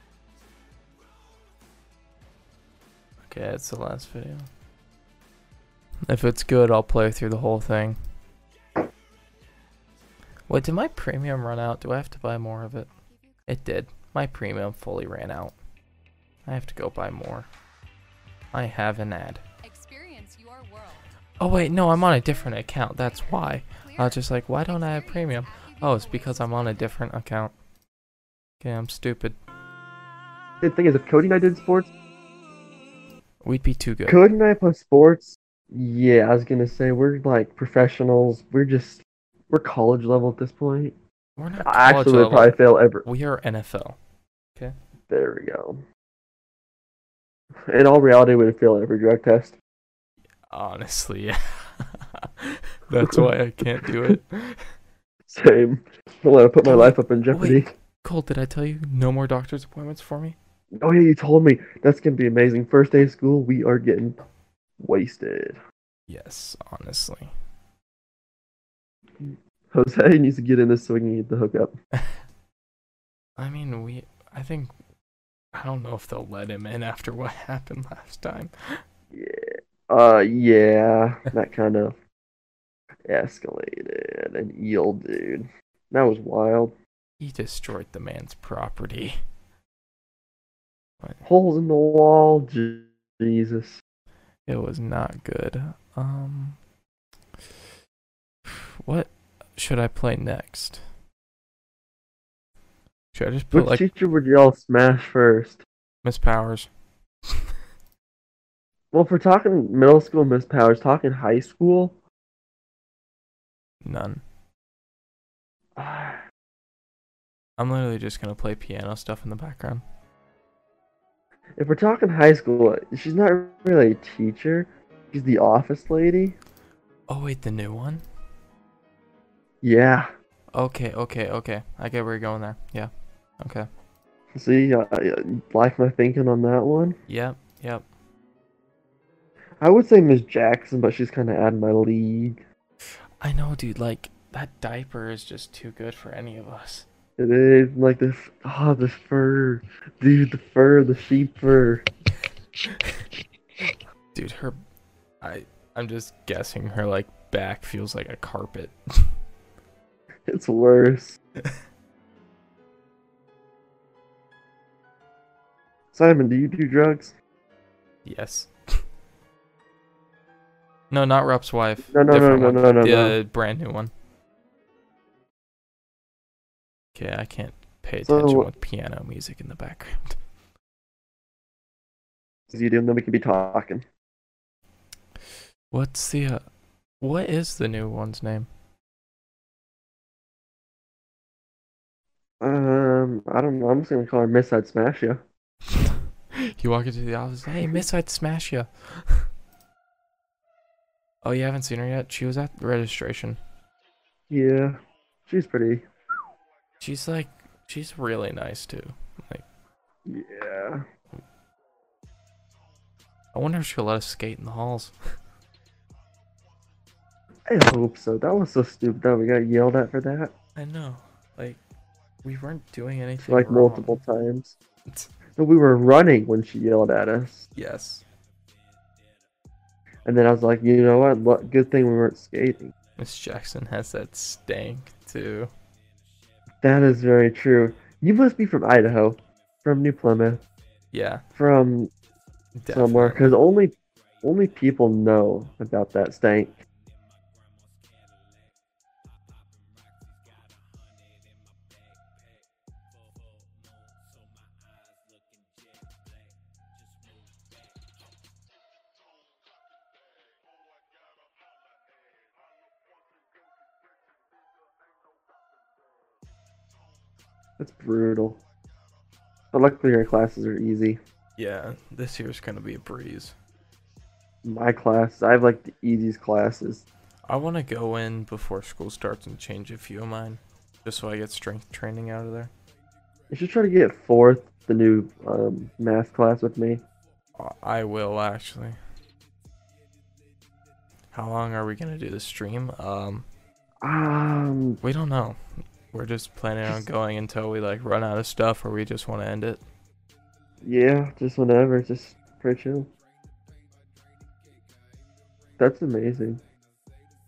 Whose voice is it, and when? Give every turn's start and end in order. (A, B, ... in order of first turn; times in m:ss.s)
0:03.2-0:04.5 A
0:06.0-0:08.0 A
0:10.5-0:12.9 A
0:13.1-0:13.4 B
0:13.5-0:15.6 A
0:16.4-0:17.5 A
0:18.5-0:19.4 A
0:19.6-0:21.0 B
0:21.4-0:27.5 A
0:23.8-0:27.0 B
0:28.6-0:29.4 A
0:30.6-0:31.9 C
0:33.4-0:34.2 A
0:34.1-0:40.9 C
0:41.4-0:44.0 A
0:41.6-0:43.0 C
0:45.1-0:45.8 C
0:47.7-0:49.6 C
0:50.5-0:54.7 A
0:55.3-0:57.7 C
0:56.6-1:00.4 A
1:00.8-1:04.2 C
1:04.8-1:05.6 C
1:06.1-1:07.3 A
1:09.2-1:11.7 C
1:11.9-1:12.2 A
1:13.4-1:14.7 A
1:15.5-1:18.8 A
1:19.1-1:22.0 C
1:23.1-1:26.7 C
1:27.2-1:29.2 A
1:31.2-1:33.8 C
1:34.5-1:36.6 A
1:38.4-1:40.8 A
1:43.1-1:43.8 A
1:43.5-1:45.6 C
1:46.0-1:46.7 A
1:48.9-1:52.0 C
1:53.8-1:54.2 A
1:55.8-1:56.2 C
1:57.6-1:59.8 A
2:01.6-2:06.4 C
2:07.1-2:08.0 A
2:09.6-2:10.1 C
2:10.5-2:13.7 A
2:14.3-2:17.0 C
2:17.1-2:17.8 A
2:19.6-2:22.4 C
2:23.2-2:26.8 A
2:27.2-2:31.8 C
2:34.1-2:34.6 A
2:35.2-2:39.1 A
2:40.3-2:41.2 C
2:45.9-2:47.1 C
2:48.0-2:48.8 A
2:50.9-2:53.9 A
2:51.9-2:53.2 C
2:56.9-3:00.2 A
2:58.0-2:58.5 C
3:02.5-3:03.8 C
3:05.7-3:06.4 A
3:07.0-3:08.5 A
3:12.4-3:15.2 C
3:15.7-3:19.3 A
3:21.2-3:23.4 A
3:24.3-3:25.8 C
3:26.8-3:29.4 A
3:30.0-3:30.8 C
3:33.3-3:34.9 A
3:37.5-3:40.3 C
3:40.6-3:41.6 A
3:42.2-3:44.0 A
3:43.2-3:44.6 C
3:45.4-3:47.5 C
3:47.6-3:48.0 A
3:50.0-3:52.7 C
3:53.0-3:55.5 A
3:56.6-4:00.4 C
4:00.9-4:01.2 A
4:01.4-4:01.9 C
4:02.6-4:03.4 A
4:02.7-4:06.6 C
4:27.6-4:28.4 C
4:29.5-4:31.0 C
4:31.4-4:33.3 A
4:34.4-4:36.8 C
4:37.3-4:42.5 A
4:43.3-4:46.8 C
4:47.4-4:48.8 A
4:51.1-4:53.3 A
4:53.8-4:54.8 C
4:54.8-4:59.6 A
5:00.6-5:02.9 C
5:05.6-5:06.4 C